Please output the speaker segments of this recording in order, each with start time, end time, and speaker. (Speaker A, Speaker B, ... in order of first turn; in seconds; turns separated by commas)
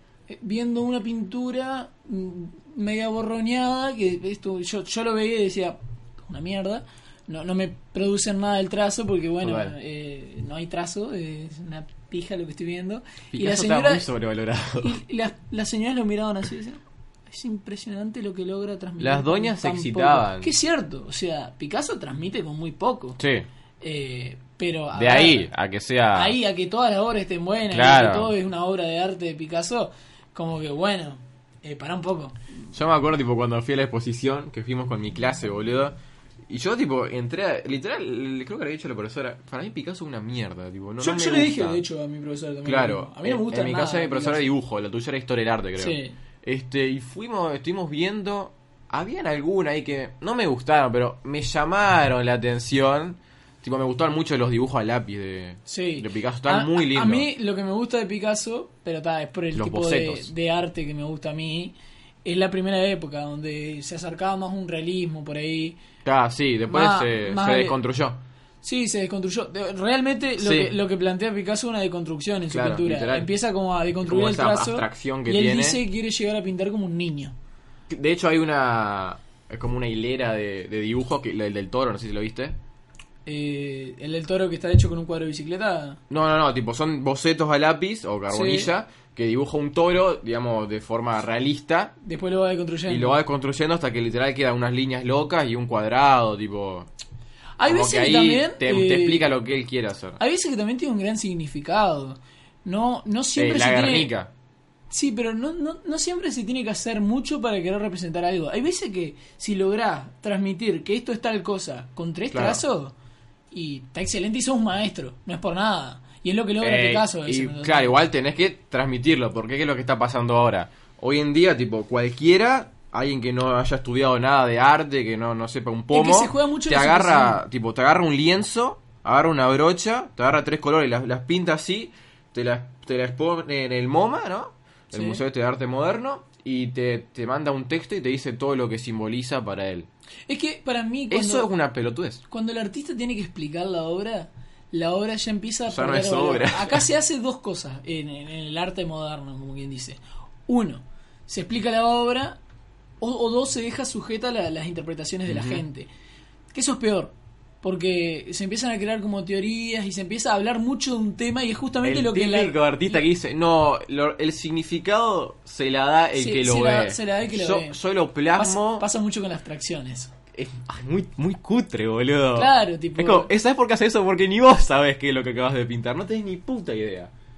Speaker A: 0.3-14.1, Speaker B: 9.4-9.8, Speaker B: 13.3-15.0, Speaker A: 14.8-23.2, Speaker B: 19.0-20.5, Speaker B: 23.2-23.5, Speaker A: 23.8-25.5, Speaker B: 24.9-26.4, Speaker A: 26.1-32.4, Speaker B: 27.7-28.3, Speaker B: 32.7-36.0, Speaker B: 36.5-41.8, Speaker A: 41.0-44.5, Speaker B: 42.6-57.3, Speaker A: 45.8-46.1, Speaker A: 55.7-61.7, Speaker B: 59.5-60.3, Speaker A: 62.2-65.8, Speaker B: 66.0-68.2, Speaker A: 66.7-67.8, Speaker A: 68.6-77.3, Speaker B: 70.4-70.7, Speaker B: 72.5-73.3, Speaker B: 74.0-75.8, Speaker B: 77.9-82.6, Speaker A: 83.3-86.0, Speaker B: 86.1-92.0, Speaker A: 88.3-88.7, Speaker A: 92.0-93.2, Speaker B: 92.9-96.9, Speaker A: 97.6-99.3, Speaker B: 97.7-100.2, Speaker A: 100.2-104.1, Speaker B: 103.4-104.3, Speaker A: 104.9-112.9, Speaker B: 112.3-112.6, Speaker A: 113.5-118.0, Speaker B: 116.6-139.9, Speaker A: 125.9-127.4, Speaker A: 134.9-135.2, Speaker A: 140.3-141.5, Speaker B: 141.1-142.2, Speaker A: 142.3-152.4, Speaker B: 145.7-146.8, Speaker A: 153.0-155.9, Speaker B: 155.3-155.6, Speaker A: 156.5-163.0, Speaker B: 161.8-168.9, Speaker A: 166.2-167.8, Speaker A: 168.4-170.1, Speaker B: 170.3-177.1, Speaker A: 172.3-173.3